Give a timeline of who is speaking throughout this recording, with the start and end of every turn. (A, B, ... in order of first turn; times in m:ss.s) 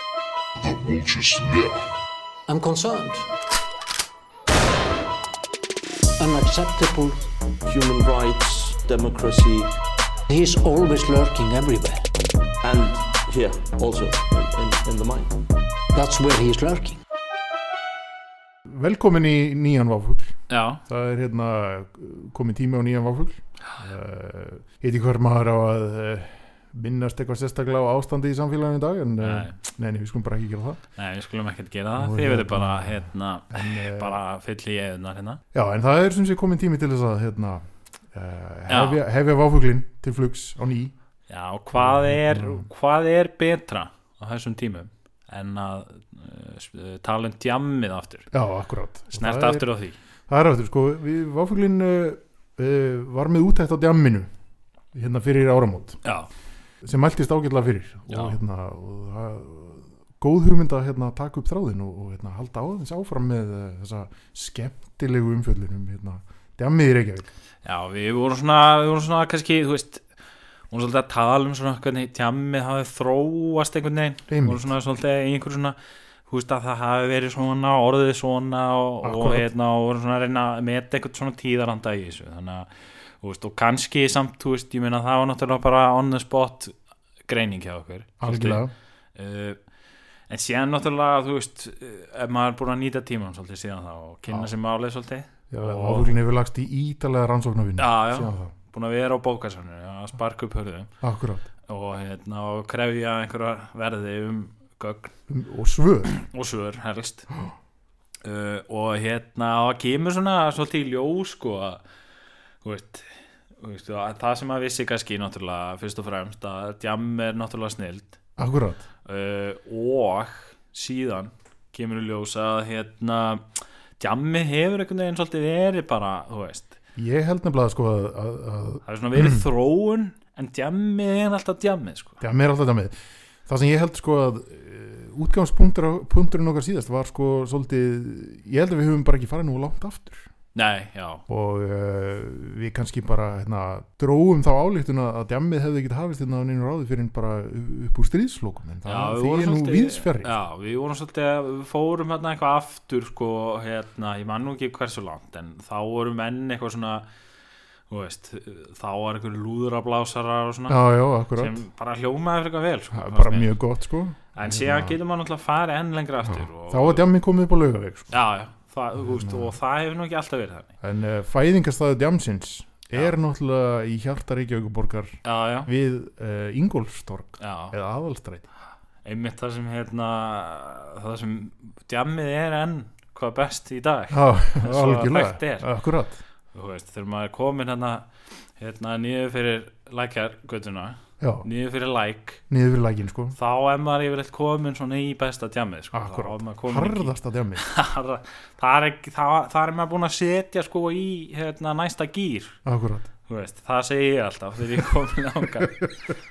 0:02.5-0:03.3 A
0:06.2-0:07.2 A
0:07.6-0:09.7 B
0:10.3-0:12.1 A
0:12.6-0:15.5 B
0:15.9-0:17.0 A
0:18.7-0:30.8 C
0:20.5-0:20.8 D
0:29.2-0:29.6 D
0:31.0-0:35.4 D
0:32.0-0:34.2 C
0:35.5-0:40.9 C
0:38.7-0:39.0 D
0:41.3-0:48.3 D
0:41.7-0:42.7 C
0:48.3-0:49.6 C
0:49.1-0:50.0 D
0:50.3-0:54.3 C
0:54.9-0:56.0 C
0:56.0-0:56.3 D
0:56.8-1:07.3 C
0:58.1-0:58.4 D
1:07.6-1:10.0 D
1:10.7-1:15.8 D
1:14.3-1:14.7 C
1:16.3-1:22.7 D
1:19.0-1:19.4 C
1:23.2-1:26.8 D
1:27.3-1:28.6 D
1:28.2-1:28.7 C
1:29.1-1:29.6 D
1:30.3-1:36.1 D
1:35.5-1:38.5 C
1:37.8-1:40.9 D
1:41.0-1:41.5 C
1:41.7-1:45.1 D
1:45.3-1:46.1 C
1:46.0-1:47.3 D
1:47.3-1:47.5 C
1:48.2-1:51.8 D
1:52.6-1:58.2 D
1:58.4-1:58.8 C
1:59.0-2:06.8 D
2:07.0-2:09.4 C
2:08.8-2:12.2 D
2:12.2-2:12.9 C
2:13.4-2:20.3 C
2:20.5-2:21.2 D
2:21.3-2:30.3 C
2:28.8-2:37.0 D
2:37.9-2:40.8 D
2:40.7-2:41.6 C
2:41.3-2:43.6 D
2:42.9-2:45.0 C
2:44.3-2:47.1 D
2:46.3-2:48.1 C
2:48.1-2:50.7 D
2:49.0-2:49.5 C
2:50.8-2:58.5 C
2:55.2-2:55.7 D
2:57.4-2:57.7 D
2:59.0-3:05.6 D
3:04.1-3:06.2 C
3:06.5-3:12.4 D
3:11.2-3:11.4 C
3:12.5-3:13.4 C
3:13.3-3:22.6 D
3:15.9-3:17.7 C
3:22.6-3:23.1 C
3:23.3-3:25.9 D